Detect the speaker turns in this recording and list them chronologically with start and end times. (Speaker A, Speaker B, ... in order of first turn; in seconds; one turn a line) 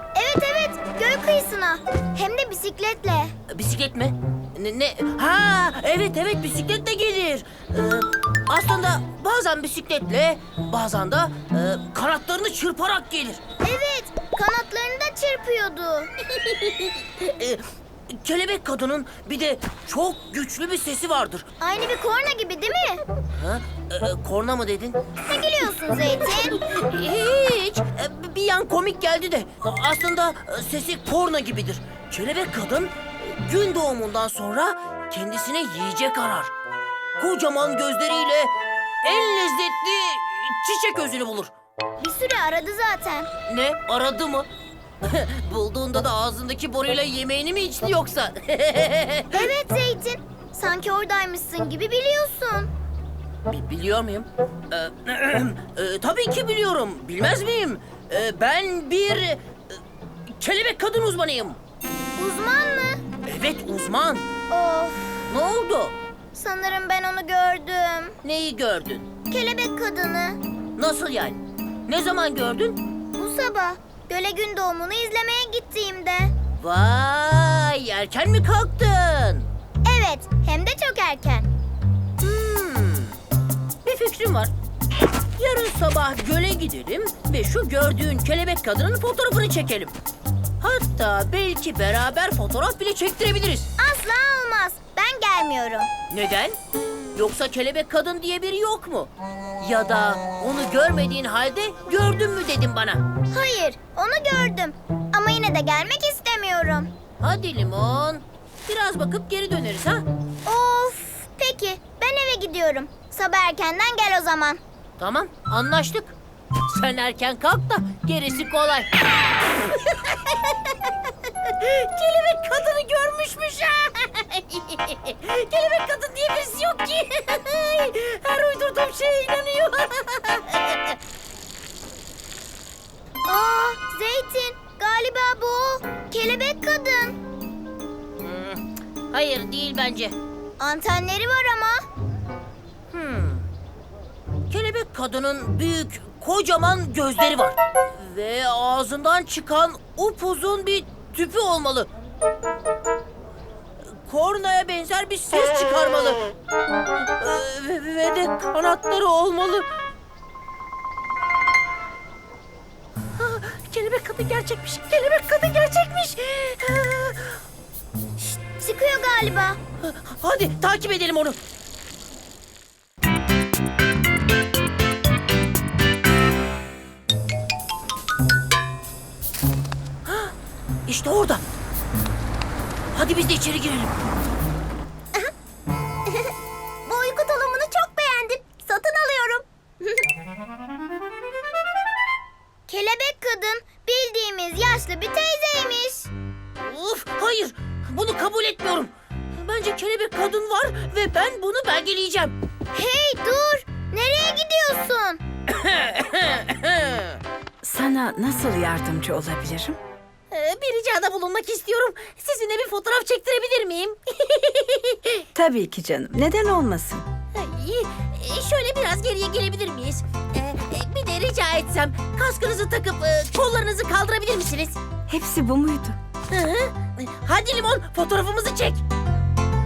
Speaker A: 0.1-3.3
Speaker B: 3.5-13.4
Speaker A: 13.6-16.1
Speaker B: 16.3-21.5
Speaker A: 21.6-23.0
Speaker B: 23.4-25.1
Speaker A: 25.2-26.6
Speaker B: 26.6-36.5
Speaker B: 37.2-38.5
Speaker B: 39.0-41.5
Speaker A: 42.0-43.3
Speaker B: 43.5-44.5
Speaker B: 45.0-49.5
Speaker A: 49.3-52.7
Speaker B: 53.5-59.8
Speaker B: 60.4-61.6
Speaker A: 62.2-63.0
Speaker B: 63.3-64.3
Speaker A: 64.5-65.2
Speaker B: 65.3-66.0
Speaker A: 66.3-68.2
Speaker B: 68.2-69.1
Speaker A: 69.3-70.4
Speaker B: 70.8-72.8
Speaker A: 73.1-76.3
Speaker B: 76.6-79.5
Speaker A: 79.8-81.5
Speaker B: 82.2-83.2
Speaker B: 83.8-84.5
Speaker B: 85.4-89.9
Speaker B: 90.6-93.7
Speaker A: 93.8-95.9
Speaker B: 96.1-96.6
Speaker B: 97.2-103.0
Speaker A: 103.3-106.9
Speaker B: 107.2-110.0
Speaker A: 110.5-114.6
Speaker B: 115.0-116.2
Speaker B: 116.7-131.0
Speaker A: 133.3-137.2
Speaker B: 138.2-140.2
Speaker A: 140.6-141.8
Speaker B: 142.9-143.5
Speaker B: 144.5-151.9
Speaker B: 153.9-156.2
Speaker B: 157.2-159.7
Speaker B: 163.2-167.4
Speaker A: 168.2-169.6
Speaker B: 169.8-171.4
Speaker B: 180.1-180.3
Speaker B: 180.9-181.4
Speaker B: 182.9-183.9
Speaker A: 186.9-190.0
Speaker A: 192.7-196.1
Speaker B: 196.6-202.3
Speaker A: 202.7-205.2
Speaker B: 205.5-207.2
Speaker C: 207.6-209.8
Speaker B: 210.3-215.3
Speaker C: 215.3-217.1
Speaker B: 217.3-224.8
Speaker C: 225.1-226.0
Speaker B: 226.3-228.8